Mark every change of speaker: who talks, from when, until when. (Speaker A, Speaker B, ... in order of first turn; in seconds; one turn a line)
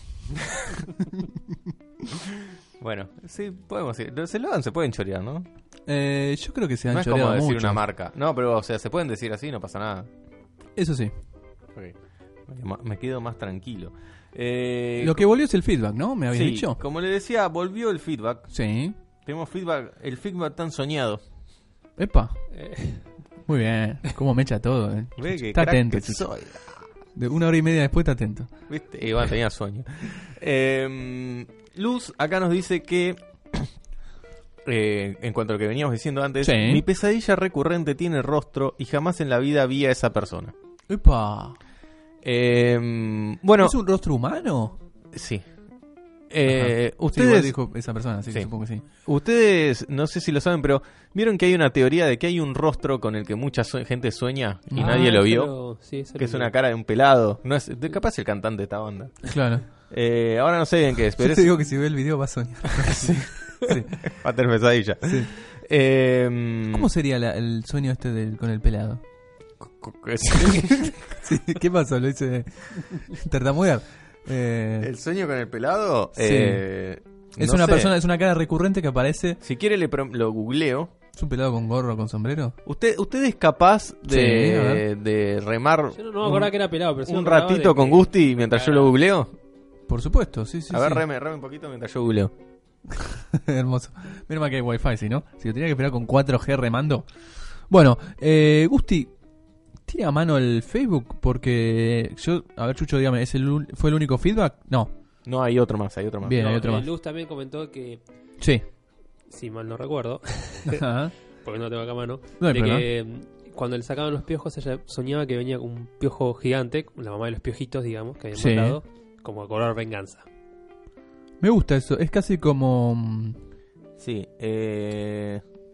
Speaker A: 2.8-5.5
Speaker B: 5.9-7.8
Speaker A: 6.9-10.1
Speaker B: 10.8-11.1
Speaker A: 12.5-15.3
Speaker B: 15.0-16.8
Speaker A: 16.3-18.5
Speaker B: 18.5-18.9
Speaker A: 19.3-21.2
Speaker B: 22.0-22.4
Speaker C: 22.5-23.1
Speaker B: 23.5-26.3
Speaker A: 25.2-26.8
Speaker B: 27.1-28.5
Speaker A: 28.7-33.7
Speaker A: 34.6-40.5
Speaker B: 36.4-36.9
Speaker B: 40.9-41.6
Speaker A: 42.2-43.8
Speaker B: 43.6-44.8
Speaker A: 45.1-45.4
Speaker A: 46.3-47.5
Speaker B: 46.5-48.8
Speaker A: 49.0-55.5
Speaker B: 54.7-55.2
Speaker C: 54.8-56.5
Speaker A: 56.2-59.3
Speaker B: 59.2-59.7
Speaker A: 59.9-61.6
Speaker B: 61.2-64.0
Speaker A: 62.8-66.9
Speaker B: 66.7-69.0
Speaker A: 69.6-71.0
Speaker B: 70.4-74.9
Speaker A: 74.8-77.9
Speaker B: 76.2-76.7
Speaker B: 77.4-79.4
Speaker A: 79.4-80.9
Speaker B: 81.1-82.5
Speaker A: 82.7-86.4
Speaker B: 84.1-84.8
Speaker C: 85.9-88.9
Speaker A: 87.0-89.3
Speaker B: 89.9-91.0
Speaker A: 90.7-92.3
Speaker B: 93.0-97.1
Speaker B: 97.7-99.1
Speaker B: 99.8-104.9
Speaker A: 105.2-106.7
Speaker B: 106.2-106.9
Speaker C: 106.3-108.0
Speaker C: 109.3-120.2
Speaker B: 110.7-111.2
Speaker B: 112.4-112.8
Speaker B: 118.3-118.8
Speaker B: 121.4-123.4
Speaker A: 124.0-125.4